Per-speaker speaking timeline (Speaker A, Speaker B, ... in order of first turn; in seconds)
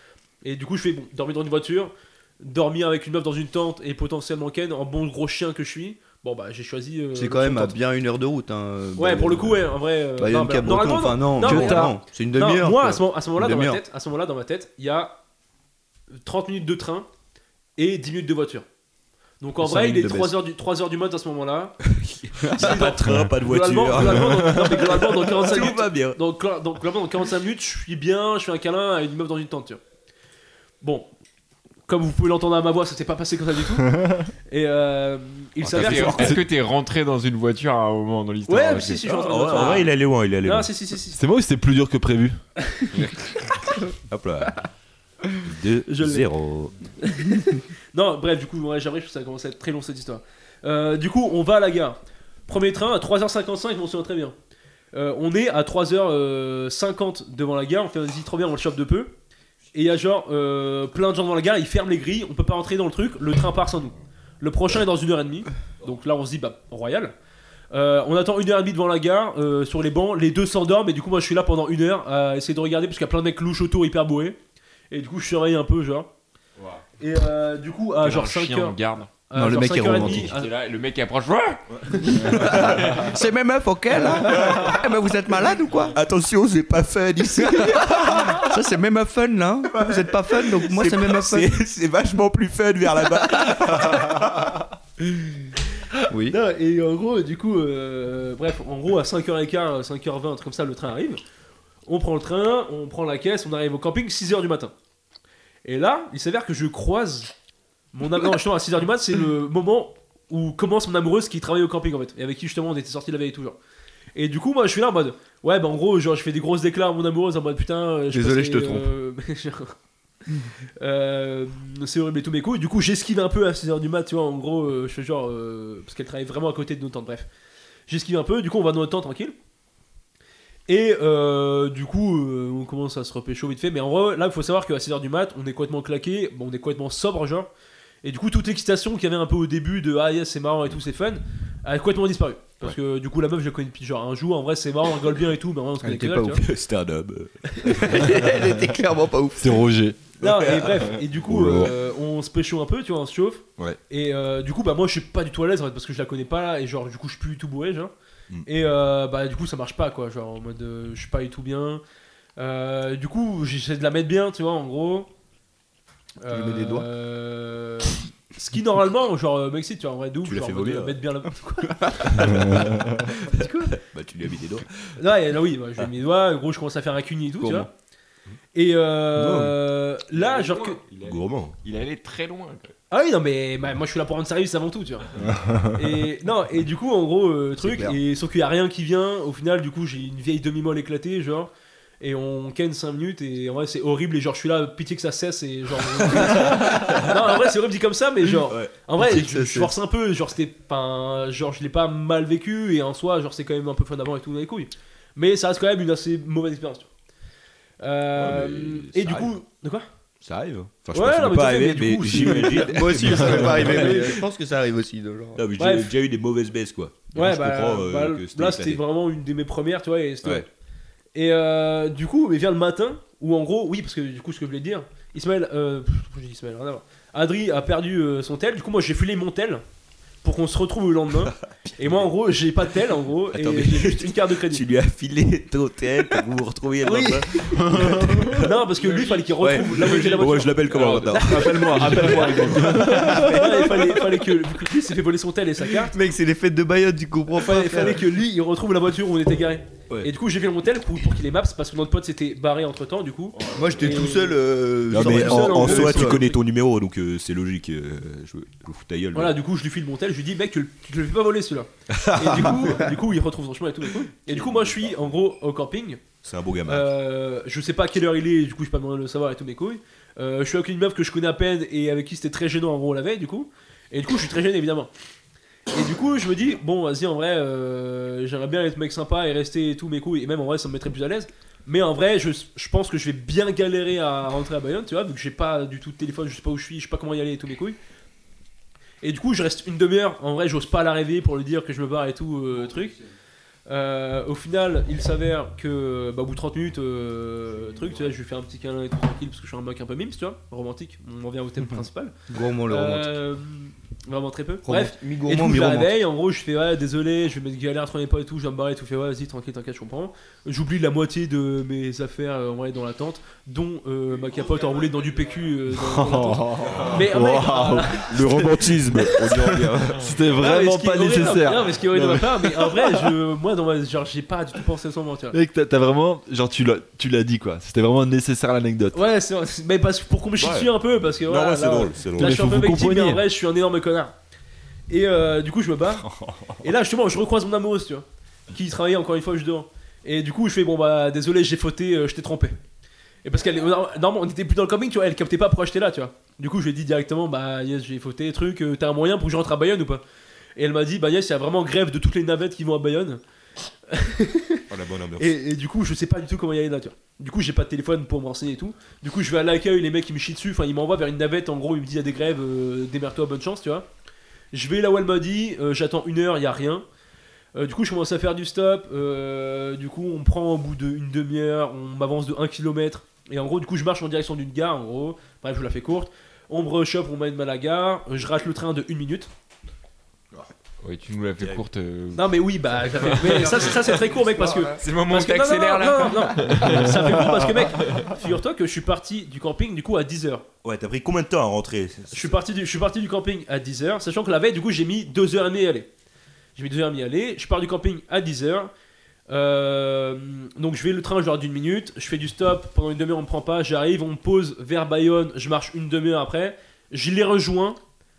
Speaker A: 0.4-7.8, 9.0-15.2, 16.2-17.1, 17.8-18.7, 19.4-21.8, 22.5-29.8, 30.8-31.1, 31.9-36.4, 38.5-41.2, 45.9-46.3, 47.0-54.4, 54.9-59.1, 59.7-67.1, 67.7-74.4, 74.9-76.1, 77.0-80.5, 96.3-101.2, 101.9-104.7, 105.7-107.3, 107.9-113.6, 114.2-119.8, 120.8-127.3, 127.9-129.3, 130.7-137.5, 138.0-146.4, 147.6-148.1, 150.2-157.9, 158.5-161.8, 162.4-165.1, 166.2-172.4, 175.0-177.7, 178.5-180.8, 182.9-191.5, 192.0-206.9, 207.8-209.9, 210.9-214.2, 215.6-215.9, 217.1-220.5, 221.2-229.6, 230.2-234.6, 236.8-237.6, 238.3-240.6, 241.1-246.0, 247.3-254.4, 254.9-256.4, 259.1-266.0, 266.7-274.9, 275.7-287.8, 289.0-293.0, 293.7-302.1, 302.7-318.7, 320.3-325.4, 328.9-334.1, 334.9-336.1, 336.6-342.6, 343.2-350.0, 350.6-353.2, 353.9-354.7, 355.2-363.9, 364.5-366.8, 367.6-379.3, 382.1-390.5, 392.1-395.9, 396.6-398.7, 399.3-407.8
Speaker B: 7.1-13.8, 19.6-20.4, 79.3-80.3, 82.1-85.9, 87.5-91.5, 93.0-93.6, 96.1-96.4, 118.1-118.9, 145.8-146.4, 147.7-149.7, 166.3-166.9, 173.3-173.7, 177.4-177.7, 179.2-179.6, 187.6-188.0, 199.0-199.7, 212.2-215.4, 237.7-238.3, 239.4-240.0, 243.1-244.0, 245.8-248.1, 253.5-256.2, 301.7-303.2, 304.6-306.1
Speaker C: 11.4-11.9, 21.9-26.2, 35.6-36.4, 39.1-40.7, 43.9-44.7, 45.3-46.8, 81.9-82.8, 85.9-88.5, 89.7-94.5, 146.3-147.4, 150.2-151.7, 170.2-171.0, 172.1-174.9, 181.0-181.6, 196.2-197.0, 198.5-198.7, 208.2-209.3, 210.2-214.2, 215.4-218.8, 233.3-238.1, 239.9-242.7, 254.9-259.4, 261.9-262.9, 264.3-265.1, 266.2-266.9, 316.6-317.1, 318.1-320.1, 330.4-330.7, 331.2-332.5, 354.7-355.3, 381.4-381.7, 390.6-392.4
Speaker D: 35.7-39.9, 42.9-43.3, 78.0-79.1, 80.0-83.1, 180.1-182.7, 238.8-242.1, 380.8-383.8, 384.6-388.1
Speaker E: 41.2-42.4, 149.4-150.0, 237.6-238.4, 241.2-243.4, 315.7-322.9, 325.3-329.0, 332.2-333.2